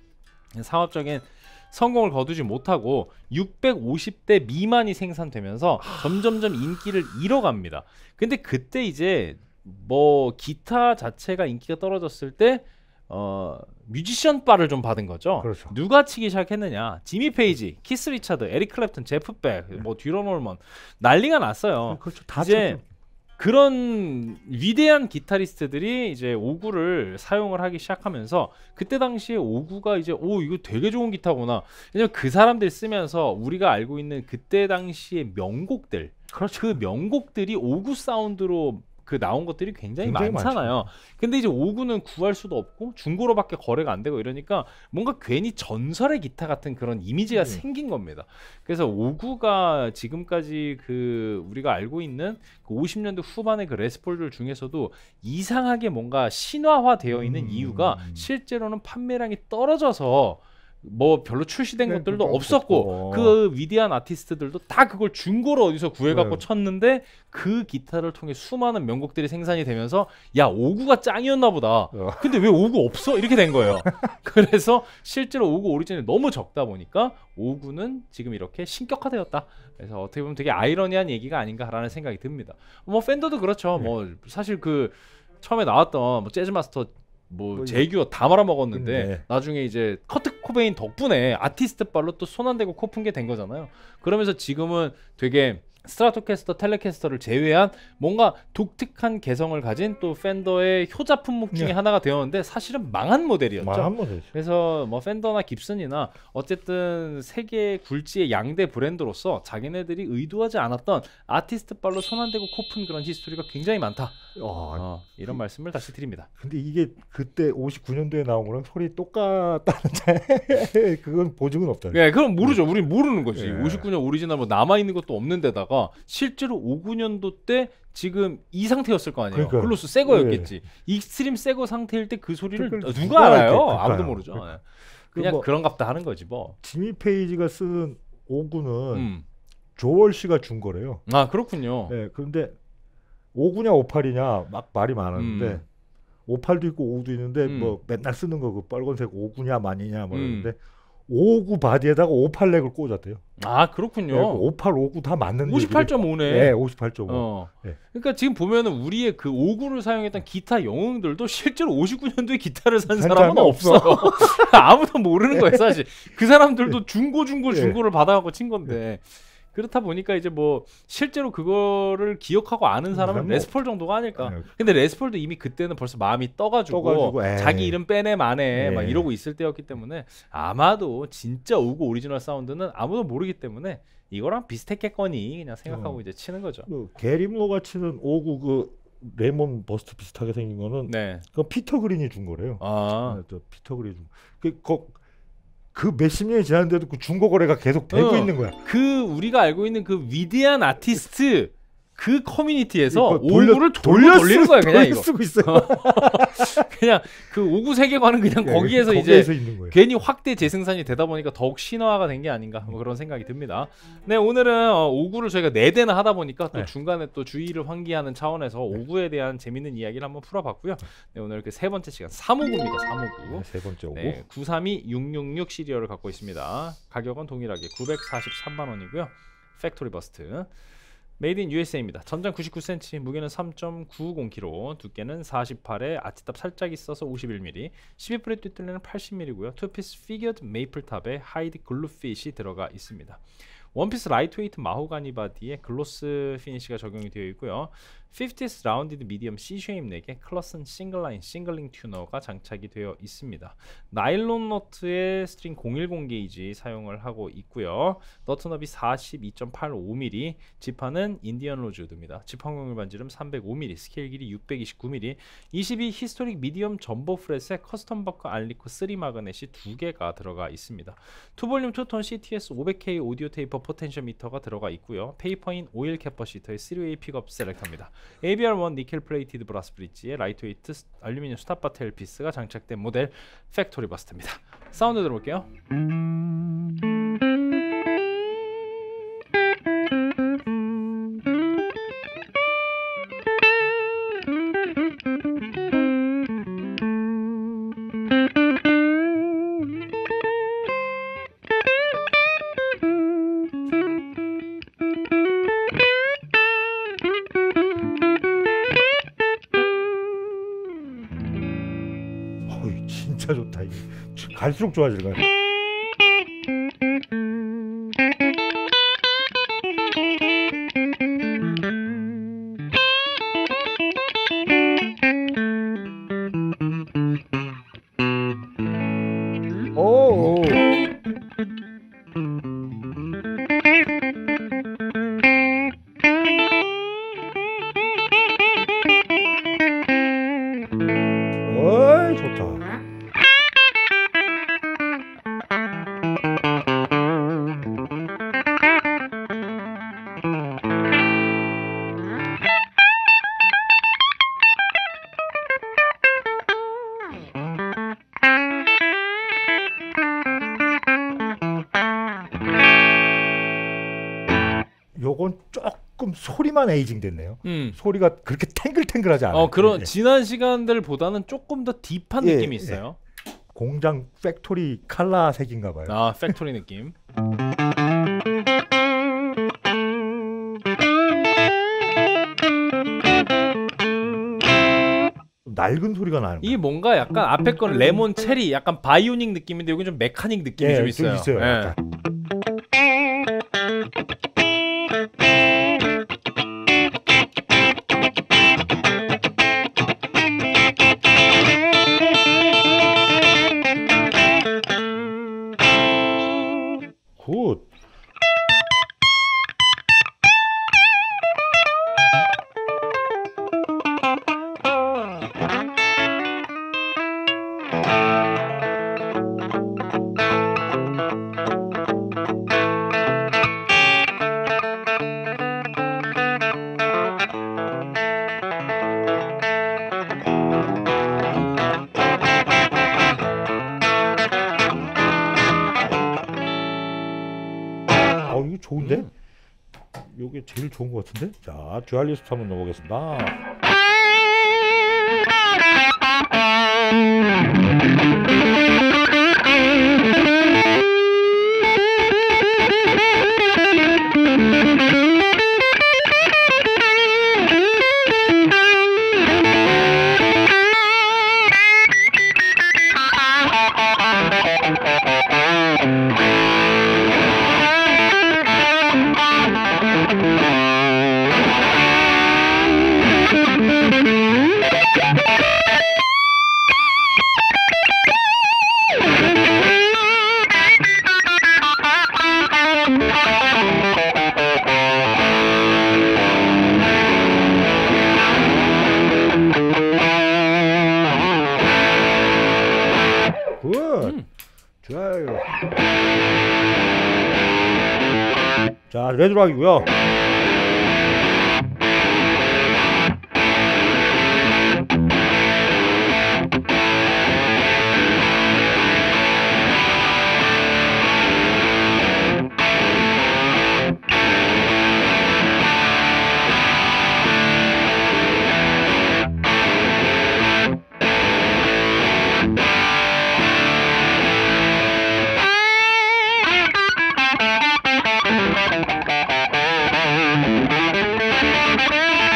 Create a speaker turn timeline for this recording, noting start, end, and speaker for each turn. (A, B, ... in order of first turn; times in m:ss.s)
0:00.5-0:22.8 A
0:15.4-0:15.7 B
0:21.8-0:22.8 B
0:23.4-1:54.2 A
0:40.0-0:40.9 B
0:47.3-0:47.6 B
0:57.0-0:58.3 B
1:01.8-1:03.4 B
1:06.1-1:06.4 B
1:11.9-1:12.4 B
1:13.6-1:14.0 B
1:27.5-1:27.9 B
1:28.7-1:29.2 B
1:43.6-1:44.3 B
1:54.3-1:55.4 B
1:54.8-1:56.3 A
1:56.4-2:02.6 B
2:01.9-2:16.6 A
2:03.3-2:03.9 B
2:09.3-2:10.5 B
2:12.5-2:14.6 B
2:15.1-2:15.5 B
2:16.6-2:19.1 B
2:18.9-2:19.2 A
2:19.8-2:21.1 B
2:21.1-2:21.9 A
2:21.9-2:22.6 B
2:23.3-2:25.6 B
2:25.2-2:25.6 A
2:26.3-2:33.2 B
2:27.4-2:27.8 A
2:30.1-2:30.5 A
2:33.4-2:34.4 A
2:34.1-2:37.8 B
2:35.4-2:36.5 A
2:37.1-3:06.7 A
2:42.9-2:44.6 B
2:45.3-2:45.7 B
2:47.5-2:47.8 B
2:52.9-2:53.5 B
2:54.1-2:54.5 B
2:56.7-2:57.8 B
2:58.5-2:59.1 B
3:05.7-3:06.0 B
3:06.7-3:15.0 B
3:10.8-3:11.2 A
3:12.6-3:13.2 A
3:15.7-3:18.6 B
3:17.9-3:50.5 A
3:22.9-3:26.7 B
3:28.4-3:29.8 B
3:43.3-3:44.2 B
3:51.2-4:03.2 A
4:03.7-4:45.5 A
5:12.5-5:15.2 B
5:29.8-5:30.6 B
5:41.4-5:42.6 B
6:05.0-6:09.9 B
6:07.4-6:07.8 A
6:09.3-6:13.0 A
6:12.2-6:12.8 B
6:13.5-6:16.4 B
6:15.9-6:16.9 A
6:25.4-6:26.6 B
6:26.4-6:31.7 A
6:30.6-6:31.8 B
6:47.2-6:47.7 B
7:18.2-7:19.1 B
7:18.8-7:19.1 A
7:20.1-7:23.4 B
8:13.6-8:14.2 B
8:14.8-8:15.5 B
8:18.9-8:19.9 B